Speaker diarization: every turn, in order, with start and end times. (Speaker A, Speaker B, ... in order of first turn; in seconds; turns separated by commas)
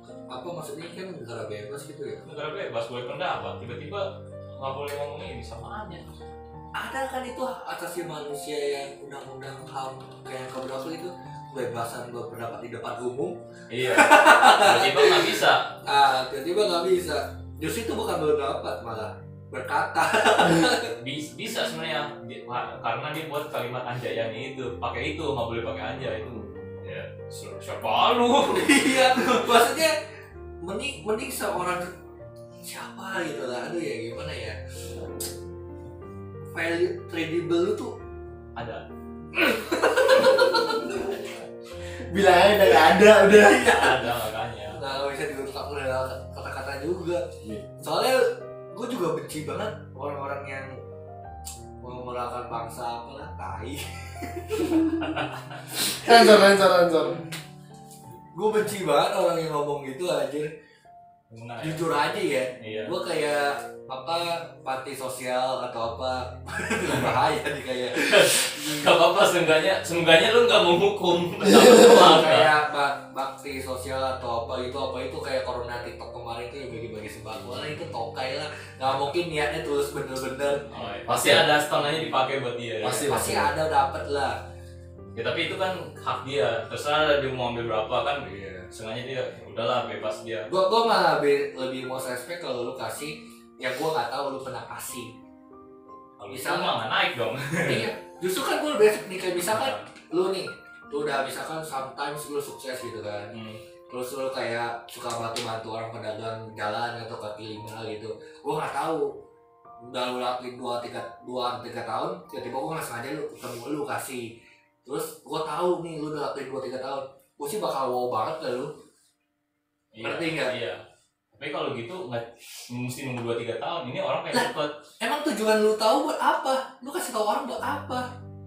Speaker A: 0.3-2.2, Speaker B: 2.2-6.0, Speaker A: 6.8-20.9, Speaker B: 13.7-15.8, Speaker B: 21.0-29.6, Speaker C: 26.3-26.6, Speaker A: 28.4-30.0, Speaker A: 30.6-31.9, Speaker A: 32.6-34.6, Speaker A: 36.5-37.9, Speaker B: 38.6-38.8, Speaker A: 39.3-41.2, Speaker C: 42.0-43.9, Speaker A: 43.2-44.0, Speaker B: 43.3-44.8, Speaker A: 44.7-47.2, Speaker C: 47.4-47.7, Speaker A: 47.8-50.8, Speaker A: 51.8-55.0, Speaker B: 55.0-55.5, Speaker C: 55.8-57.2, Speaker A: 58.3-60.5, Speaker B: 61.3-61.9, Speaker A: 61.6-68.9, Speaker B: 62.6-62.9, Speaker B: 66.9-67.2, Speaker B: 68.0-72.5, Speaker A: 71.5-80.7, Speaker B: 80.7-83.2, Speaker C: 81.1-81.5, Speaker C: 82.8-83.5, Speaker A: 83.0-84.4, Speaker B: 85.2-90.5, Speaker A: 88.2-88.7, Speaker A: 90.5-95.1, Speaker B: 96.2-97.9, Speaker A: 96.3-96.8, Speaker A: 97.7-103.3, Speaker B: 99.5-99.9, Speaker B: 103.3-103.6, Speaker A: 103.9-109.1, Speaker A: 109.9-114.3, Speaker A: 114.8-118.7, Speaker B: 119.9-124.7, Speaker A: 120.0-120.5, Speaker A: 124.3-128.1